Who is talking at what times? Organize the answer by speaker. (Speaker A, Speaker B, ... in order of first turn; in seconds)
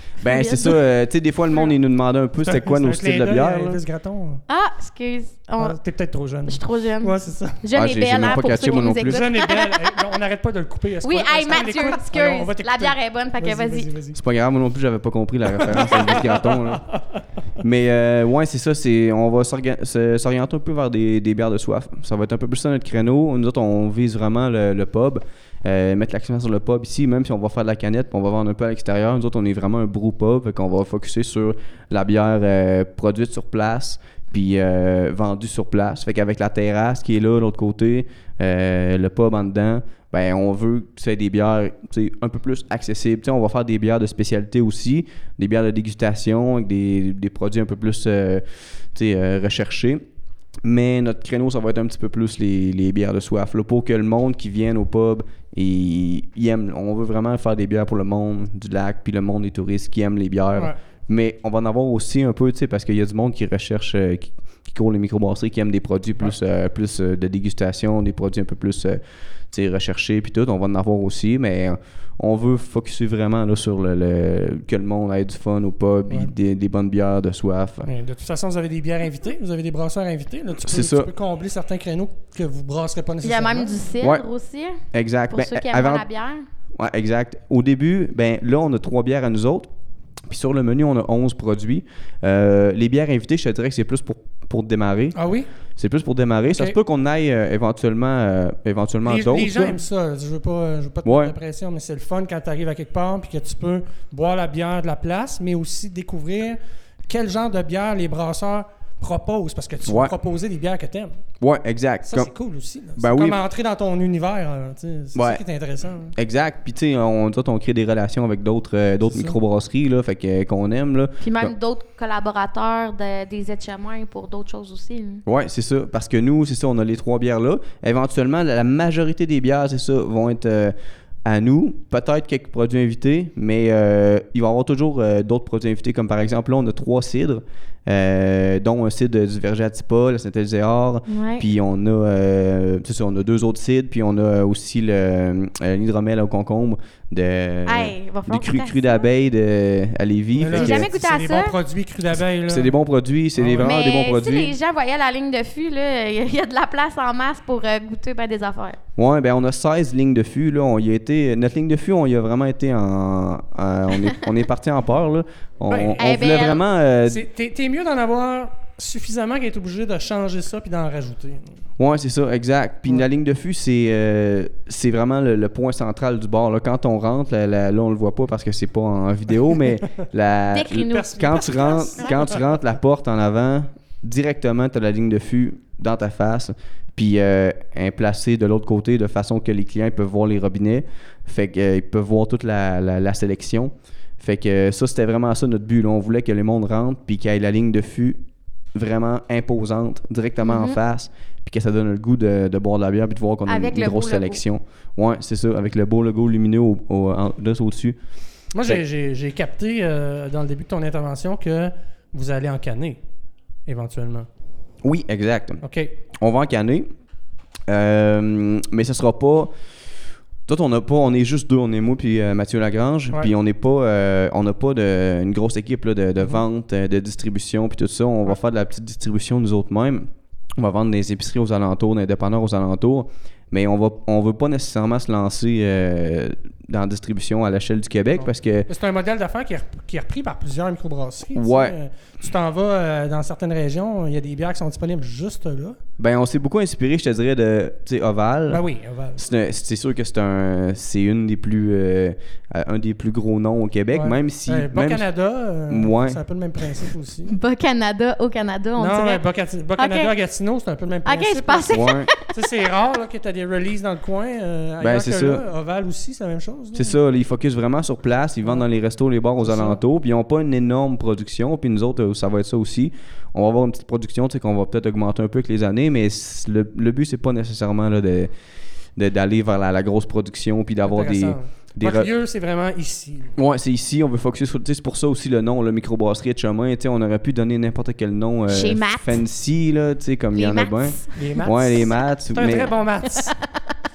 Speaker A: 0.2-0.8, 4.5-5.8, 6.5-9.9, 11.0-13.9, 83.2-86.5, 121.2-125.2, 141.1-141.5, 147.7-149.1, 150.5-151.6, 153.6-158.8, 166.0-166.7, 180.5-182.4, 200.4-200.8, 203.5-204.4, 257.3-259.2, 259.8-260.1, 261.1-262.3, 288.5-289.2, 290.3-291.1, 293.2-293.6
Speaker B: 0.2-3.8, 7.7-9.2, 14.2-16.9, 17.6-50.0, 50.6-69.0, 69.5-77.9, 80.6-81.1, 84.9-86.0, 86.8-89.7, 90.3-95.2, 95.8-99.8, 101.0-101.3, 109.8-110.1, 111.4-112.3, 113.0-113.4, 115.2-115.4, 116.2-121.5, 125.2-130.8, 131.2-150.9, 152.5-154.6, 159.0-167.2, 171.8-198.2, 198.7-208.0, 214.8-215.6, 216.2-216.9, 217.7-219.5, 220.5-238.7, 241.3-241.8, 246.0-248.6, 249.2-255.1, 255.7-256.2, 261.7-262.1, 264.8-265.5, 266.7-278.3, 279.0-282.1, 283.4-292.7
Speaker C: 2.4-4.4, 5.6-7.6, 9.0-14.2, 15.6-17.0, 77.8-83.8, 95.2-95.5, 96.5-96.8, 99.0-111.2, 112.0-116.1, 119.1-119.4, 150.4-152.8, 153.3-153.8, 165.7-166.2, 167.1-171.4, 180.9-182.5, 208.5-213.0, 213.7-214.3, 215.6-215.9, 238.2-245.8, 248.5-249.3, 253.9-257.4, 258.8-266.9, 269.4-269.8, 280.9-283.4, 291.1-293.4